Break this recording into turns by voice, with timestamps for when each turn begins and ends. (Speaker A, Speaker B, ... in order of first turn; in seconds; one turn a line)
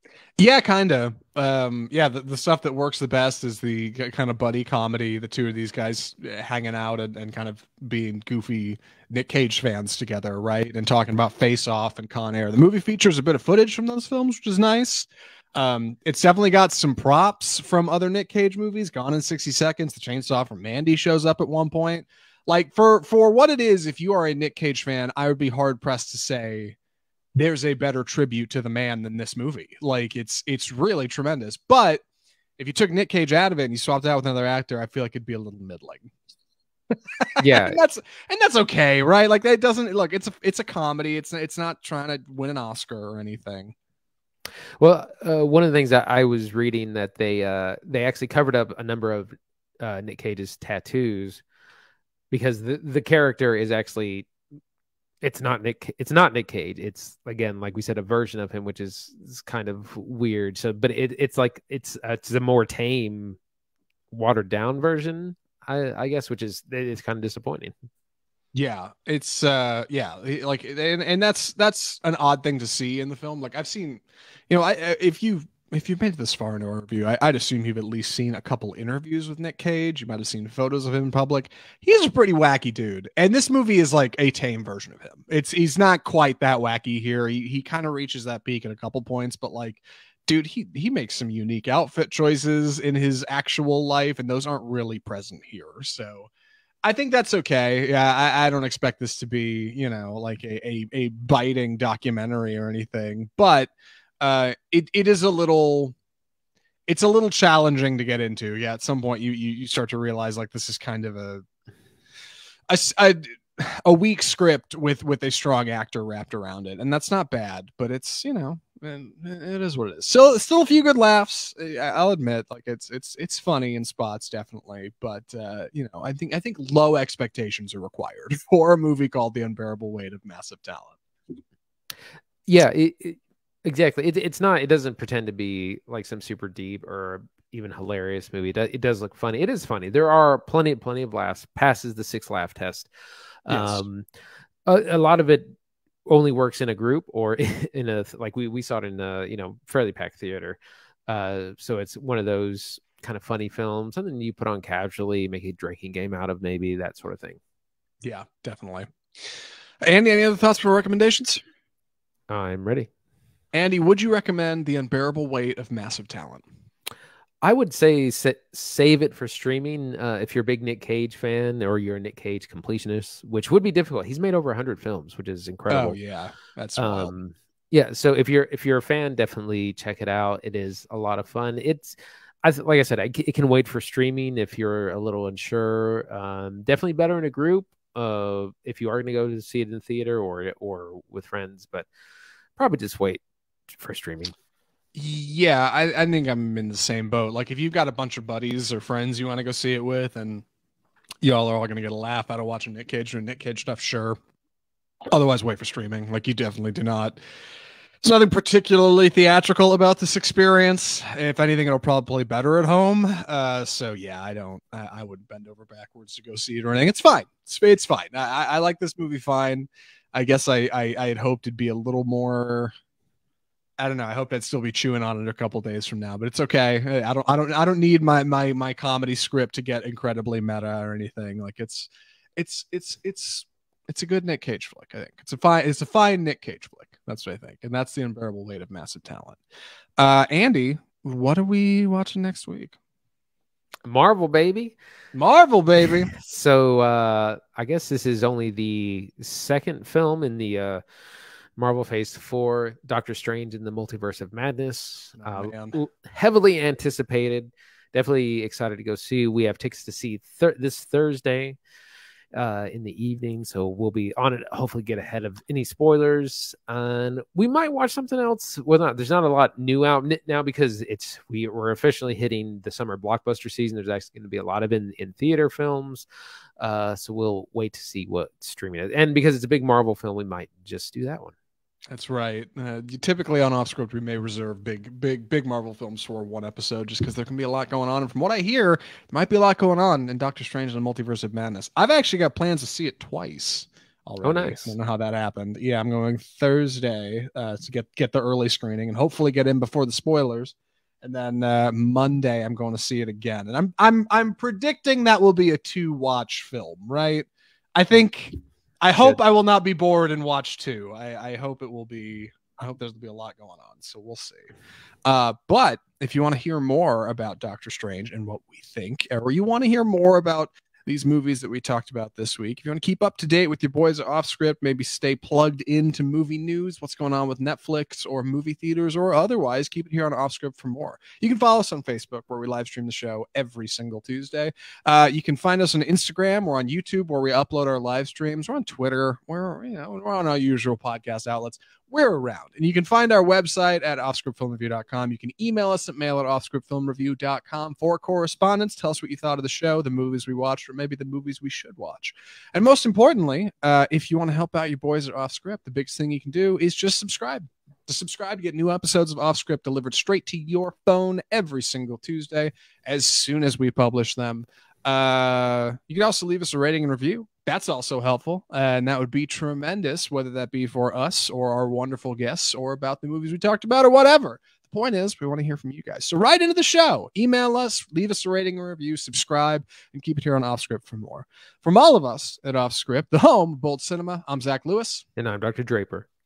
Speaker A: 0.4-26.8
Speaker A: 27.4-32.0
Speaker A: 32.6-36.1
Speaker A: 36.9-43.7
Speaker B: 37.4-37.8
Speaker B: 44.8-51.4
Speaker B: 52.3-54.3
Speaker B: 55.2-63.4
Speaker B: 64.1-67.7
Speaker A: 68.5-96.3
Speaker A: 96.8-105.9
Speaker A: 106.9-111.4
Speaker A: 112.7-130.9
Speaker B: 132.5-142.9
Speaker B: 143.4-144.1
Speaker A: 143.5-143.8
Speaker B: 144.7-157.4
Speaker A: 158.0-158.9
Speaker A: 159.8-161.4
Speaker B: 162.3-162.9
Speaker A: 163.5-166.4
Speaker B: 167.4-176.0
Speaker A: 175.7-177.1
Speaker B: 176.8-191.9
Speaker B: 192.6-194.3
Speaker A: 194.9-200.4
Speaker A: 201.2-204.2
Speaker A: 205.1-207.2
Speaker A: 208.0-222.7
Speaker A: 223.8-239.4
Speaker A: 240.0-242.8
Speaker B: 243.8-244.8
Speaker A: 245.1-246.1
Speaker B: 246.1-250.8
Speaker B: 251.6-261.6
Speaker A: 255.2-255.8
Speaker B: 262.3-276.1
Speaker B: 276.6-281.3
Speaker A: 281.9-314.5
Speaker B: 294.2-294.8
Speaker A: 315.0-385.0
Speaker B: 385.2-386.1